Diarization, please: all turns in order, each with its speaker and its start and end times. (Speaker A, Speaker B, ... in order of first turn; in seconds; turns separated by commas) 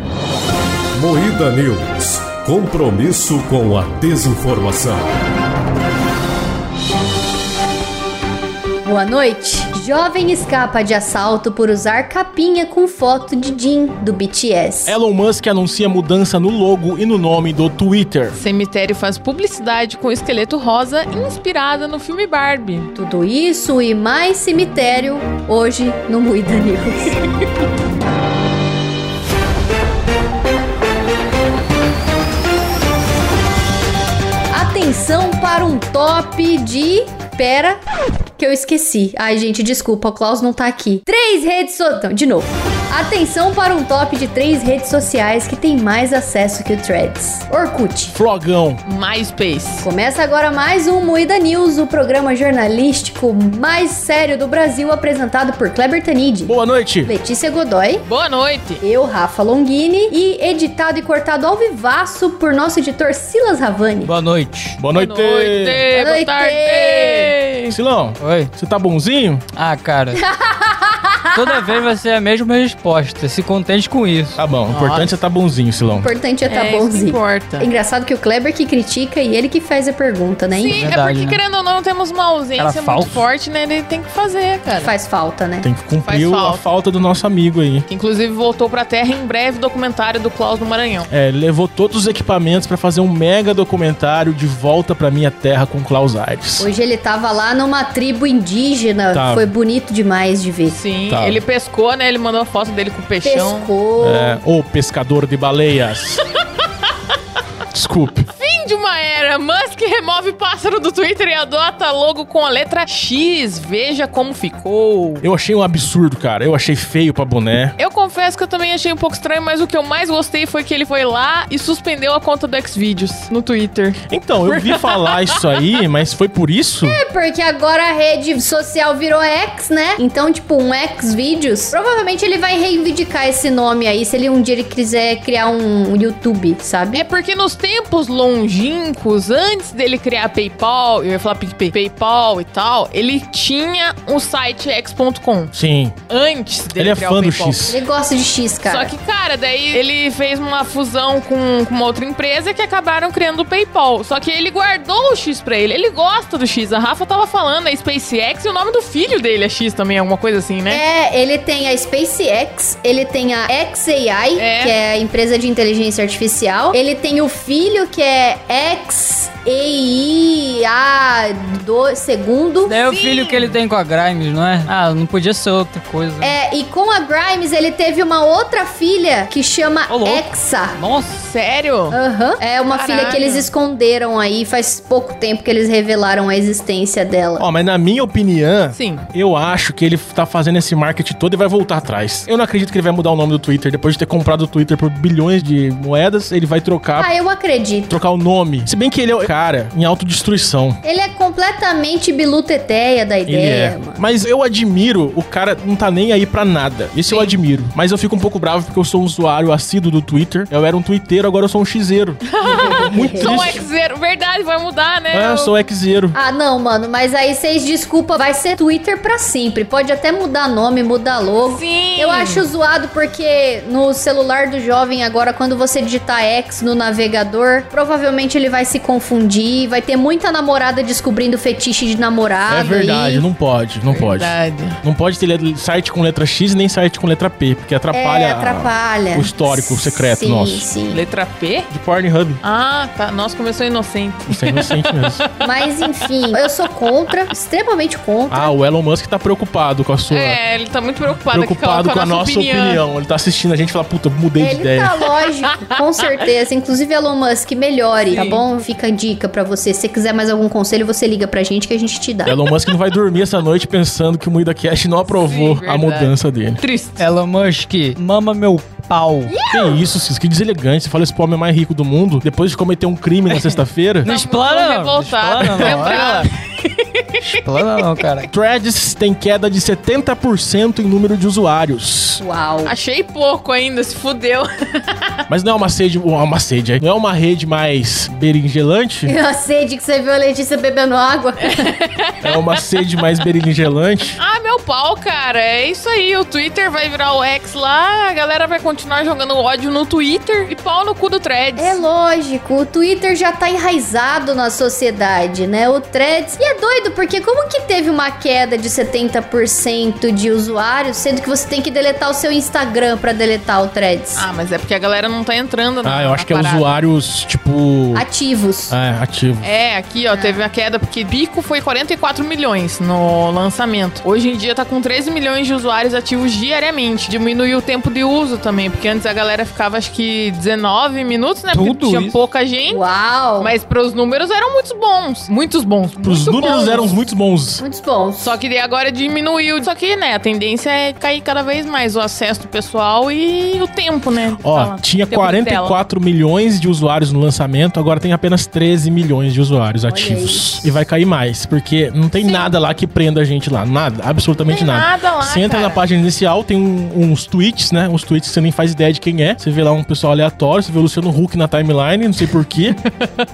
Speaker A: 1.0-5.0, Speaker B: 8.8-15.0, Speaker C: 14.9-18.4, Speaker D: 18.3-22.9, Speaker B: 22.9-27.2, Speaker B: 34.5-37.8, Speaker B: 38.4-48.2, Speaker C: 48.1-48.8, Speaker D: 48.9-49.9, Speaker B: 49.8-58.0, Speaker C: 56.5-57.1, Speaker D: 58.0-58.8, Speaker B: 58.8-64.1, Speaker E: 64.0-64.8, Speaker C: 64.8-65.8, Speaker D: 64.9-67.8, Speaker B: 65.9-67.3, Speaker C: 67.7-69.4, Speaker E: 68.2-68.5, Speaker E: 69.5-70.2, Speaker B: 70.3-71.6, Speaker E: 71.3-74.4, Speaker C: 74.4-76.1, Speaker D: 74.7-75.2, Speaker B: 75.9-80.8, Speaker D: 76.5-77.7, Speaker D: 80.5-85.0, Speaker E: 80.7-81.4, Speaker E: 82.6-83.2, Speaker B: 84.7-85.7, Speaker C: 85.6-87.9, Speaker D: 86.0-86.7, Speaker D: 87.9-91.1, Speaker C: 91.1-96.7, Speaker B: 96.6-100.8, Speaker C: 99.1-99.5, Speaker D: 100.7-103.7, Speaker C: 101.1-101.4, Speaker B: 103.2-104.4, Speaker C: 104.0-106.2, Speaker C: 107.7-108.3, Speaker D: 108.3-115.2, Speaker C: 115.2-117.8, Speaker D: 117.8-125.4, Speaker C: 124.1-127.0, Speaker B: 126.8-137.0, Speaker D: 136.9-145.5, Speaker C: 145.5-145.9, Speaker D: 146.1-147.8, Speaker C: 146.8-147.8, Speaker B: 147.6-148.9, Speaker D: 148.6-160.8, Speaker B: 160.7-172.8, Speaker D: 164.3-164.8, Speaker E: 172.7-176.3, Speaker D: 172.9-173.6, Speaker B: 176.2-180.8, Speaker E: 179.9-181.2, Speaker D: 181.2-182.0, Speaker B: 181.9-187.4, Speaker D: 182.7-183.5, Speaker C: 187.4-197.1, Speaker D: 188.7-189.0, Speaker B: 196.9-198.0, Speaker C: 197.9-200.8, Speaker B: 200.8-204.0, Speaker C: 203.3-213.6, Speaker D: 207.1-207.4, Speaker D: 212.3-215.5, Speaker B: 212.4-213.6, Speaker C: 215.1-216.1, Speaker B: 216.1-233.2, Speaker D: 221.4-222.5, Speaker C: 232.5-240.7, Speaker D: 233.9-234.8, Speaker B: 237.9-241.0, Speaker D: 240.9-241.7, Speaker C: 241.7-242.4, Speaker D: 242.4-245.3, Speaker C: 244.3-245.2, Speaker B: 245.4-248.6, Speaker C: 248.3-250.4, Speaker D: 250.1-252.8, Speaker C: 251.2-254.9, Speaker B: 254.4-262.4, Speaker D: 258.0-258.4, Speaker C: 262.2-266.6, Speaker D: 265.0-267.1, Speaker E: 267.0-269.3, Speaker D: 269.3-269.9, Speaker C: 269.5-274.1, Speaker E: 274.0-276.3, Speaker D: 274.0-277.0, Speaker C: 275.4-275.9, Speaker E: 277.2-278.3, Speaker C: 278.3-282.2, Speaker B: 282.2-282.7, Speaker D: 282.6-285.1, Speaker C: 285.3-289.1, Speaker B: 289.1-291.7, Speaker D: 291.6-292.4, Speaker C: 292.2-294.2, Speaker D: 294.2-301.8, Speaker B: 301.6-314.3, Speaker D: 314.1-316.8, Speaker C: 315.8-318.1, Speaker B: 317.9-318.8, Speaker C: 318.7-319.5, Speaker D: 319.4-337.0, Speaker B: 320.1-320.4, Speaker E: 331.5-332.2, Speaker B: 332.7-333.5, Speaker C: 336.0-337.6, Speaker B: 337.6-338.4, Speaker D: 338.2-345.8, Speaker C: 344.4-362.8, Speaker B: 349.9-350.7, Speaker D: 352.2-352.5, Speaker D: 354.5-355.8